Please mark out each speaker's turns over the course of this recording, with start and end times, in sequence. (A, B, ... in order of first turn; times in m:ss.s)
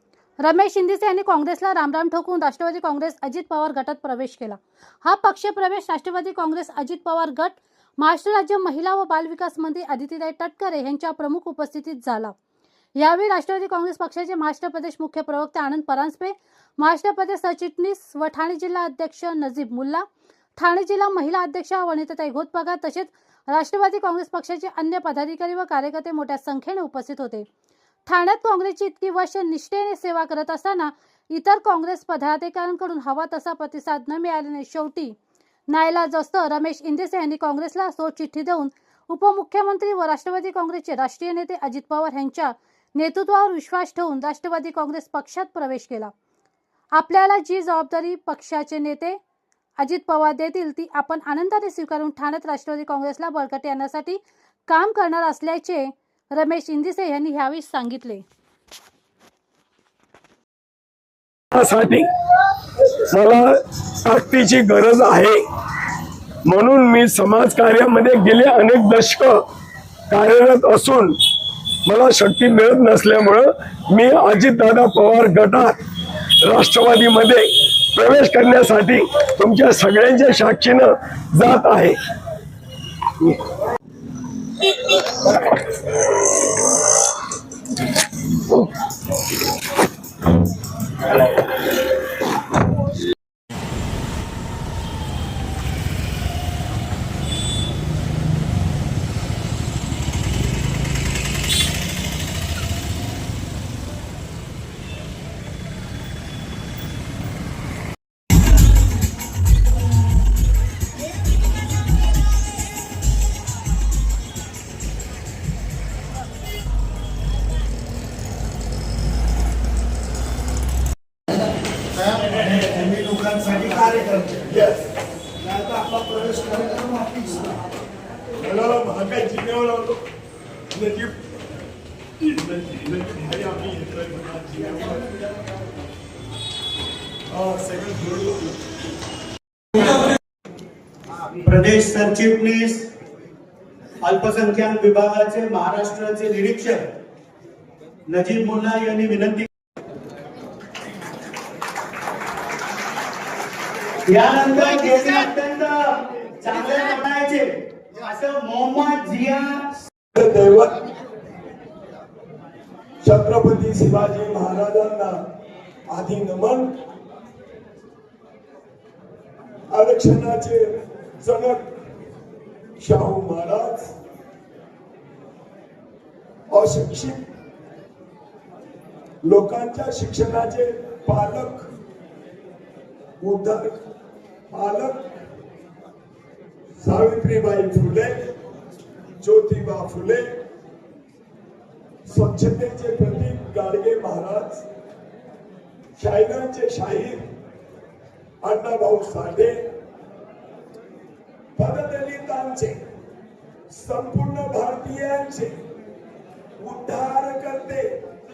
0:00.4-0:12.4 A
0:13.0-0:20.0 A
0:20.6-0:27.5 A
0:28.1-0:35.2 A
0:35.7-0:46.1 A
0:46.9-0:49.2 A
0:49.8-0:58.2 A
1:01.5-1:02.1 B
1:03.0-1:05.4 B
1:06.5-1:09.4 B
1:10.1-1:11.2 B
1:11.9-1:15.8 B
1:16.4-1:22.0 B
1:25.1-1:25.6 B
2:02.0-2:04.5 C
2:04.5-2:04.9 B
2:06.0-2:06.9 C
2:08.4-2:10.0 B
2:10.7-2:11.2 B
2:12.3-2:15.1 B
2:17.3-2:18.6 B
2:21.4-2:22.9 C
2:24.0-2:26.9 C
2:28.1-2:29.5 C
2:34.1-2:39.6 C
2:40.1-2:40.8 B
2:43.0-2:45.2 B
2:45.9-2:46.8 B
2:49.7-2:51.6 B
2:52.8-2:53.9 B
2:56.5-2:57.2 B
2:59.2-3:01.7 B
3:03.2-3:03.8 B
3:04.5-3:05.1 B
3:06.8-3:08.2 B
3:09.2-3:10.4 B
3:12.1-3:14.6 B
3:16.0-3:17.2 B
3:18.4-3:19.6 B
3:21.6-3:22.8 B
3:23.7-3:25.6 B
3:26.6-3:27.9 B